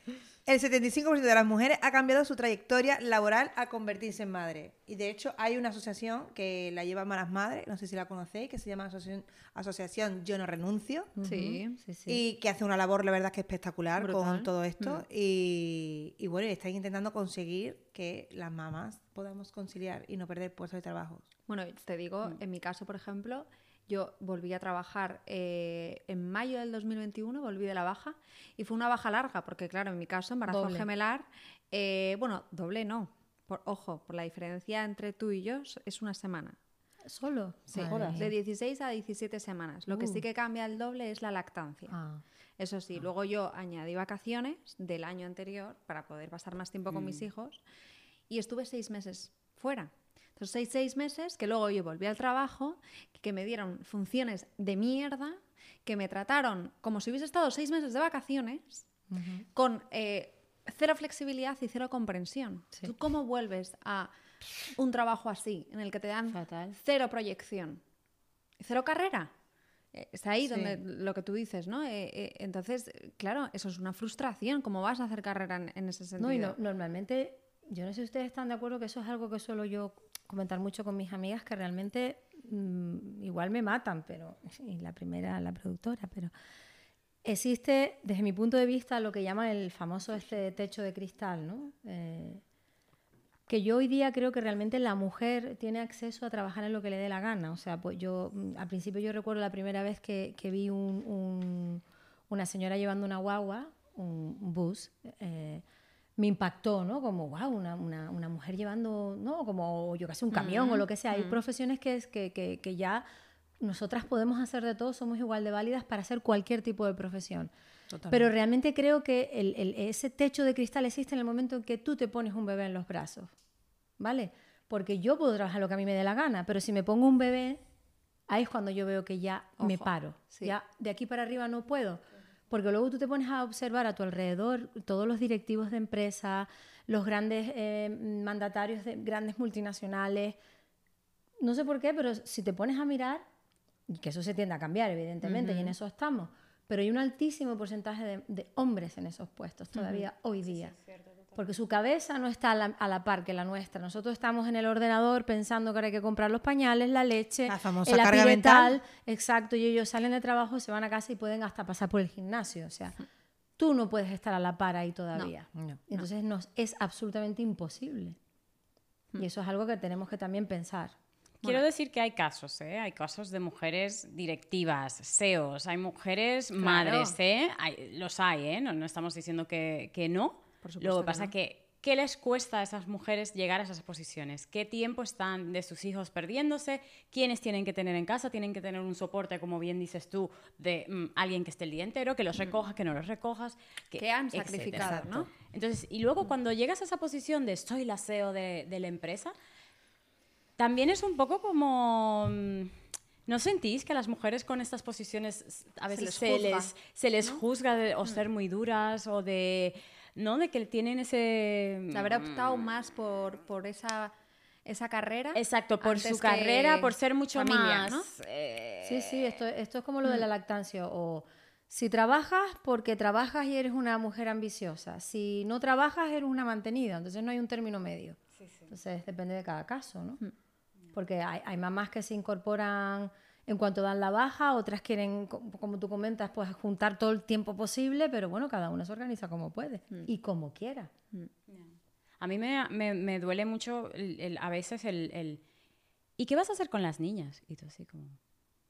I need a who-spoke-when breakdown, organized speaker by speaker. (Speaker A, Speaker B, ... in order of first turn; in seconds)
Speaker A: 0.5-11.1, 12.1-21.3, 37.7-38.3, 117.9-118.3, 157.5-158.8, 165.5-165.8, 194.8-195.3
Speaker B: 11.2-12.2, 30.5-30.9, 37.1-38.3, 39.9-40.2, 41.9-42.2, 59.1-59.5, 66.3-66.8, 70.5-70.8, 76.2-86.3, 87.2-92.4, 93.5-105.6, 106.2-113.0, 113.6-117.5, 118.1-123.3, 124.0-127.6, 128.3-140.4, 141.4-143.2, 143.9-150.7, 151.4-163.0, 163.6-168.2, 169.2-170.9, 218.8-228.2, 228.7-230.2, 230.9-240.9
Speaker C: 11.2-11.8, 14.0-14.5, 21.5-36.6, 37.7-42.0, 42.6-47.6, 48.3-58.8, 59.5-64.1, 64.7-67.8, 68.6-69.3, 69.9-76.6, 110.3-111.4, 129.6-130.5, 145.2-145.7, 149.8-150.0, 176.6-177.2, 180.6-181.3, 194.0-195.3, 205.9-206.7, 211.9-214.1, 214.7-218.1
Speaker D: 46.9-47.3, 150.5-151.5, 171.4-199.3, 200.6-202.7, 203.3-212.7, 215.3-219.4, 241.5-245.4, 246.2-248.2